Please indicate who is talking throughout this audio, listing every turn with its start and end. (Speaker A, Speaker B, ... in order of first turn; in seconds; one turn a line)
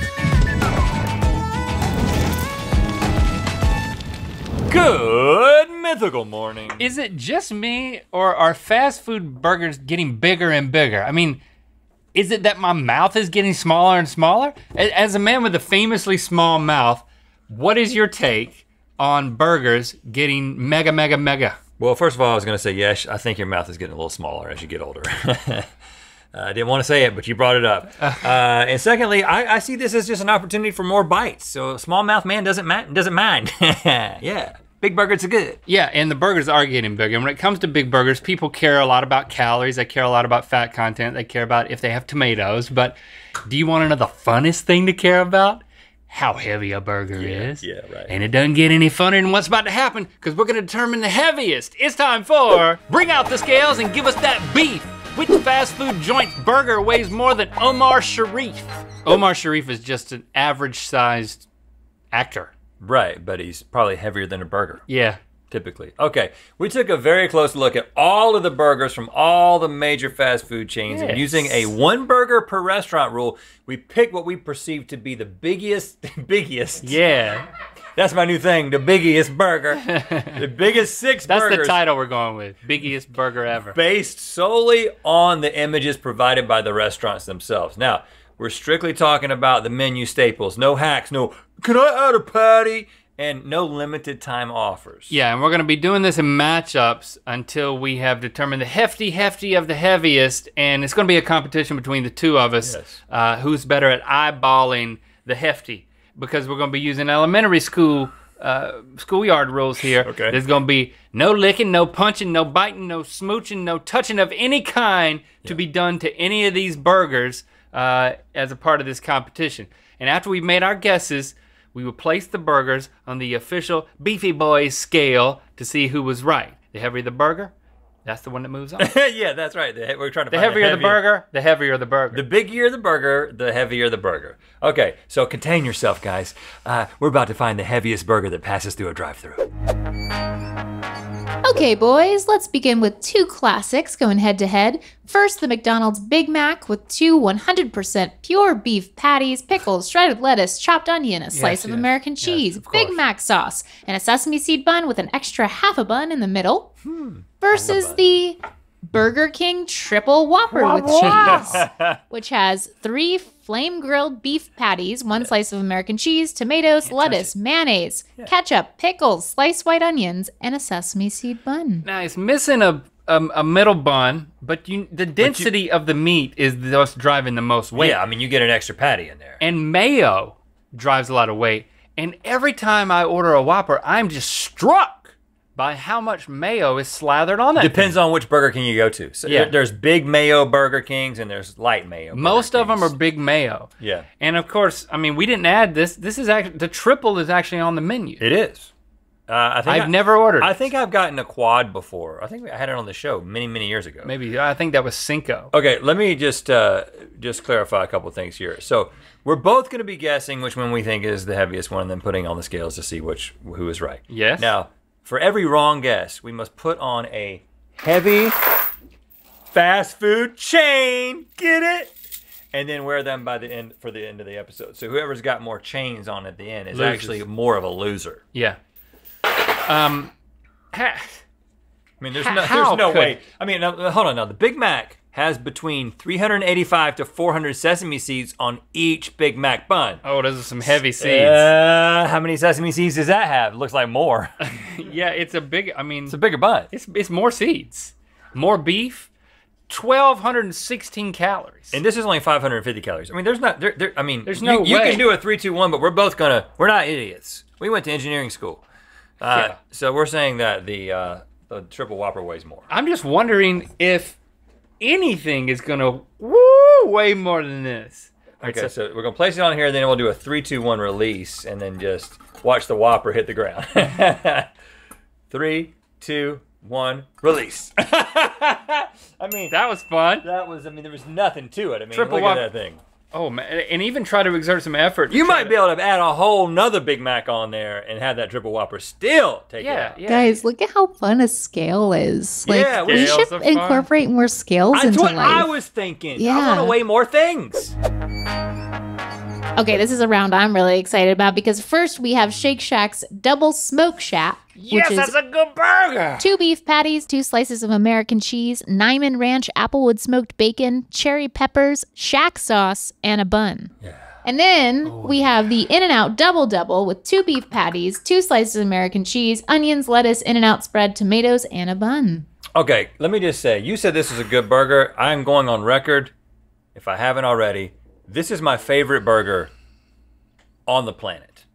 Speaker A: 4.7-6.9
Speaker B: 6.8-11.4
Speaker B: 12.1-21.6
Speaker A: 21.8-25.7
Speaker A: 26.3-35.6
Speaker B: 35.7-61.5
Speaker A: 47.1-48.1
Speaker B: 62.1-62.5
Speaker A: 62.8-64.9
Speaker B: 64.9-65.2
Speaker A: 65.5-77.0
Speaker B: 70.9-71.7
Speaker B: 76.8-77.5
Speaker A: 78.0-81.8
Speaker B: 79.9-80.4
Speaker B: 81.3-83.8
Speaker A: 83.7-95.2
Speaker B: 95.1-127.5
Speaker A: 102.6-103.0
Speaker A: 110.0-110.4
Speaker B: 128.1-128.9
Speaker A: 128.8-131.1
Speaker B: 130.3-132.2
Speaker A: 132.1-139.5
Speaker C: 141.4-156.7
Speaker B: 151.3-153.0
Speaker A: 156.8-158.0
Speaker C: 157.4-171.9
Speaker A: 160.5-162.0
Speaker B: 160.8-161.7
Speaker B: 166.8-167.3
Speaker B: 171.8-178.0
Speaker A: 175.2-175.5
Speaker A: 177.8-179.4
Speaker B: 179.4-188.0
Speaker A: 187.6-192.9
Speaker B: 189.3-189.6
Speaker B: 192.1-198.2
Speaker A: 193.8-194.1
Speaker A: 198.2-198.7
Speaker A: 199.3-204.1
Speaker B: 199.7-200.6
Speaker B: 204.0-205.5
Speaker A: 205.5-218.3
Speaker B: 214.1-214.5
Speaker A: 219.5-221.9
Speaker A: 222.5-228.2
Speaker B: 226.7-227.2
Speaker B: 229.7-230.1
Speaker B: 230.7-231.2
Speaker A: 232.0-240.0
Speaker B: 232.1-233.2
Speaker B: 240.0-241.5
Speaker A: 240.6-244.3
Speaker B: 244.4-246.2
Speaker A: 246.1-246.7
Speaker B: 246.7-249.1
Speaker B: 249.7-251.8
Speaker A: 251.7-258.6
Speaker B: 254.3-255.1
Speaker A: 259.2-262.7
Speaker B: 259.3-259.6
Speaker B: 262.7-264.2
Speaker B: 264.8-268.7
Speaker A: 268.4-274.5
Speaker A: 275.3-279.6
Speaker B: 279.5-280.3
Speaker A: 280.2-282.8
Speaker B: 281.9-282.5
Speaker B: 283.1-285.6
Speaker A: 285.1-290.0
Speaker B: 289.6-290.4
Speaker C: 290.1-295.5
Speaker A: 292.4-293.3
Speaker B: 292.9-293.9
Speaker A: 294.7-297.8
Speaker C: 296.2-296.8
Speaker C: 299.6-305.1
Speaker B: 304.6-306.3
Speaker C: 306.2-313.7
Speaker A: 313.8-314.1
Speaker C: 314.2-322.3
Speaker B: 314.9-315.3
Speaker A: 322.6-326.1
Speaker A: 326.8-329.5
Speaker A: 330.7-331.4